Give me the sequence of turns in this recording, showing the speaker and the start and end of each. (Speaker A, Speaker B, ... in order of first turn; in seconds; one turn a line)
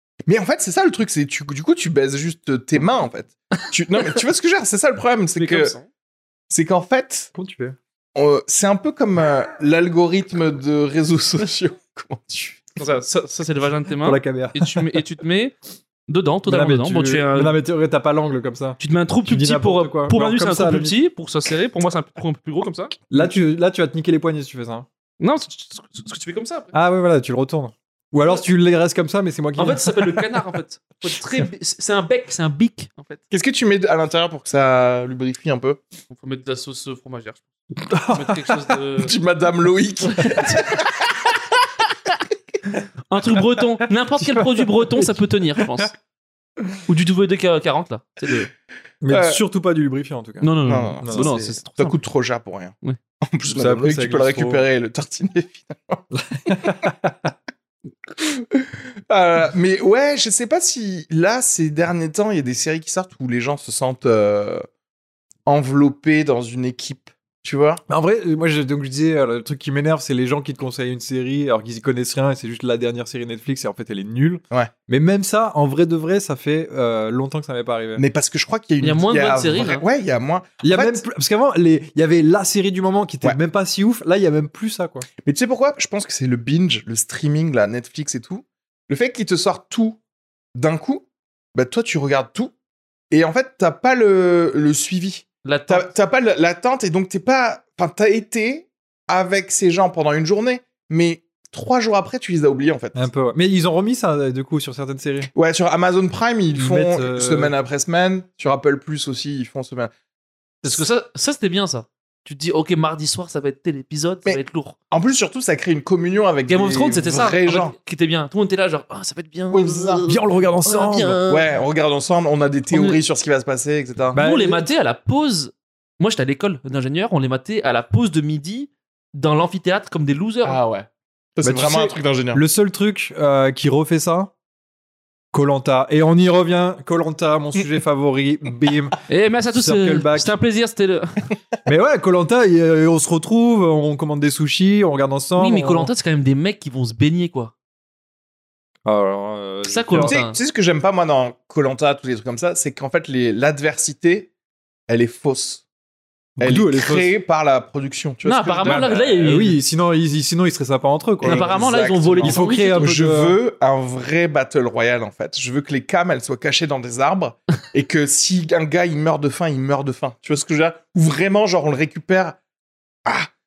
Speaker A: 0.3-5.7
Speaker B: 5.4-5.8
Speaker A: 6.5-7.3
Speaker C: 7.3-7.8
Speaker A: 8.2-12.8
Speaker B: 12.8-15.5
Speaker C: 14.0-14.9
Speaker B: 16.1-17.5
Speaker C: 16.5-20.9
Speaker B: 18.8-23.0
Speaker C: 23.1-24.9
Speaker B: 25.2-26.7
Speaker C: 26.7-30.4
Speaker B: 29.6-33.2
Speaker A: 33.3-35.8
Speaker B: 36.1-37.4
Speaker C: 37.8-38.8
Speaker B: 38.0-39.1
Speaker A: 39.0-41.1
Speaker B: 40.1-40.9
Speaker B: 43.1-45.9
Speaker C: 44.2-45.1
Speaker C: 45.6-45.9
Speaker B: 46.9-48.5
Speaker C: 49.0-51.3
Speaker A: 49.1-49.4
Speaker B: 50.4-52.0
Speaker A: 50.7-56.9
Speaker C: 53.5-54.6
Speaker C: 56.1-57.3
Speaker A: 58.2-64.7
Speaker A: 65.5-67.8
Speaker C: 67.9-78.0
Speaker A: 78.0-81.0
Speaker B: 78.8-79.8
Speaker C: 80.6-85.1
Speaker A: 85.2-90.0
Speaker A: 90.5-92.5
Speaker A: 93.1-103.0
Speaker B: 95.4-95.9
Speaker C: 103.0-105.3
Speaker A: 105.3-109.9
Speaker C: 106.5-107.5
Speaker B: 110.6-114.8
Speaker A: 114.9-117.8
Speaker B: 116.5-121.5
Speaker A: 119.5-120.1
Speaker C: 120.1-121.2
Speaker A: 121.3-124.2
Speaker B: 122.7-123.0
Speaker C: 124.2-124.7
Speaker B: 124.2-130.6
Speaker A: 130.4-132.4
Speaker C: 131.4-134.3
Speaker C: 135.3-139.0
Speaker B: 139.1-141.2
Speaker C: 139.5-140.3
Speaker C: 141.7-145.9
Speaker B: 145.4-147.5
Speaker C: 148.8-150.2
Speaker B: 149.7-150.4
Speaker A: 150.0-154.3
Speaker A: 154.9-155.7
Speaker C: 156.4-157.1
Speaker A: 156.4-159.0
Speaker B: 158.2-159.6
Speaker C: 158.6-161.6
Speaker A: 161.2-172.4
Speaker B: 161.2-162.9
Speaker C: 162.2-163.4
Speaker A: 173.1-173.3